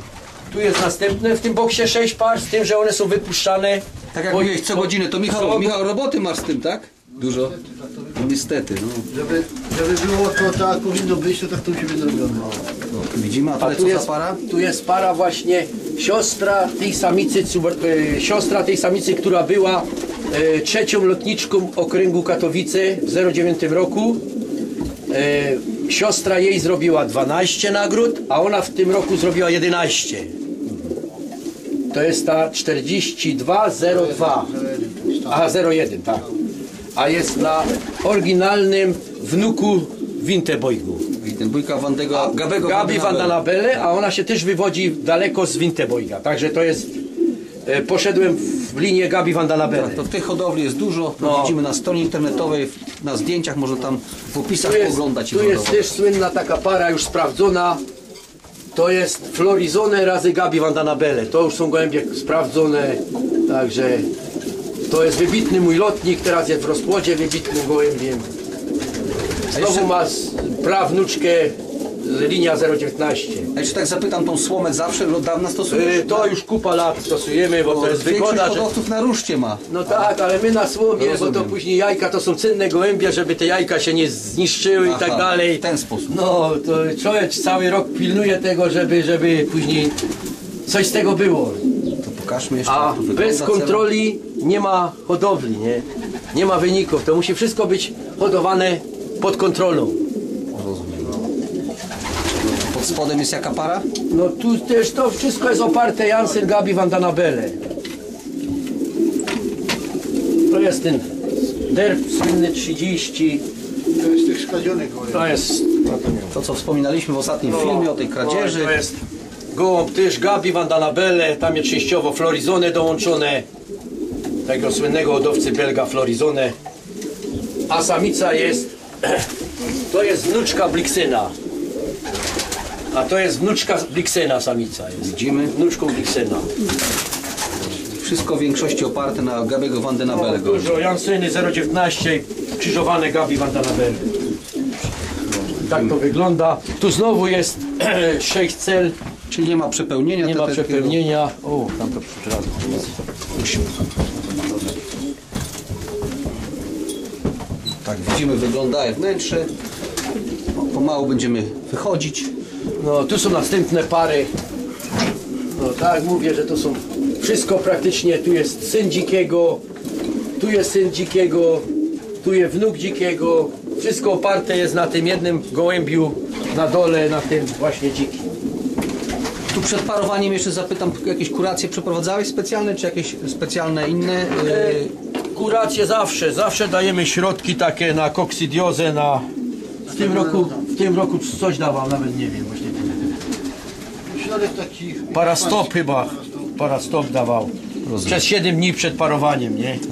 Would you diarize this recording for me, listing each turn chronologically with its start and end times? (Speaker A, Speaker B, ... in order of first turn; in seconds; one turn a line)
Speaker A: 0.5-5.8
Speaker B: 4.1-7.6
Speaker C: 7.4-8.2
Speaker B: 8.1-9.1
Speaker C: 9.1-12.6
Speaker B: 12.9-14.4
Speaker A: 13.6-24.2
Speaker A: 25.1-30.3
Speaker A: 31.9-34.5
Speaker C: 33.9-35.5
Speaker A: 35.3-36.3
Speaker A: 36.9-41.0
Speaker B: 41.2-43.8
Speaker A: 42.1-46.9
Speaker A: 47.6-50.0
Speaker B: 49.7-55.9
Speaker A: 51.2-51.5
Speaker A: 54.6-57.8
Speaker A: 58.7-64.1
Speaker A: 64.9-68.3
Speaker A: 69.5-73.5
Speaker B: 69.5-69.9
Speaker B: 73.5-76.3
Speaker A: 75.7-78.7
Speaker B: 77.6-80.1
Speaker A: 79.7-90.0
Speaker B: 81.0-81.5
Speaker B: 84.8-86.1
Speaker A: 90.7-91.6
Speaker B: 92.0-93.9
Speaker A: 92.7-100.0
Speaker B: 100.5-101.2
Speaker B: 102.5-103.8
Speaker A: 104.1-107.6
Speaker A: 110.5-111.1
Speaker A: 111.7-113.4
Speaker C: 114.0-115.3
Speaker A: 115.1-116.4
Speaker B: 116.3-118.8
Speaker A: 117.4-119.0
Speaker A: 119.5-123.5
Speaker A: 124.5-126.5
Speaker A: 127.7-129.3
Speaker A: 129.9-131.3
Speaker A: 132.9-136.5
Speaker B: 135.0-135.5
Speaker B: 138.0-140.8
Speaker A: 140.1-144.1
Speaker B: 145.3-145.9
Speaker A: 145.6-148.9
Speaker B: 149.3-151.0
Speaker A: 150.2-152.9
Speaker B: 153.4-153.7
Speaker B: 157.8-159.5
Speaker B: 160.5-162.3
Speaker A: 162.8-164.3
Speaker A: 165.5-169.6
Speaker A: 170.4-171.7
Speaker A: 172.2-178.3
Speaker B: 179.5-184.9
Speaker A: 184.4-189.2
Speaker C: 189.9-190.5
Speaker A: 189.9-193.1
Speaker C: 194.1-196.5
Speaker A: 195.1-197.5
Speaker B: 197.8-198.2
Speaker A: 198.0-199.8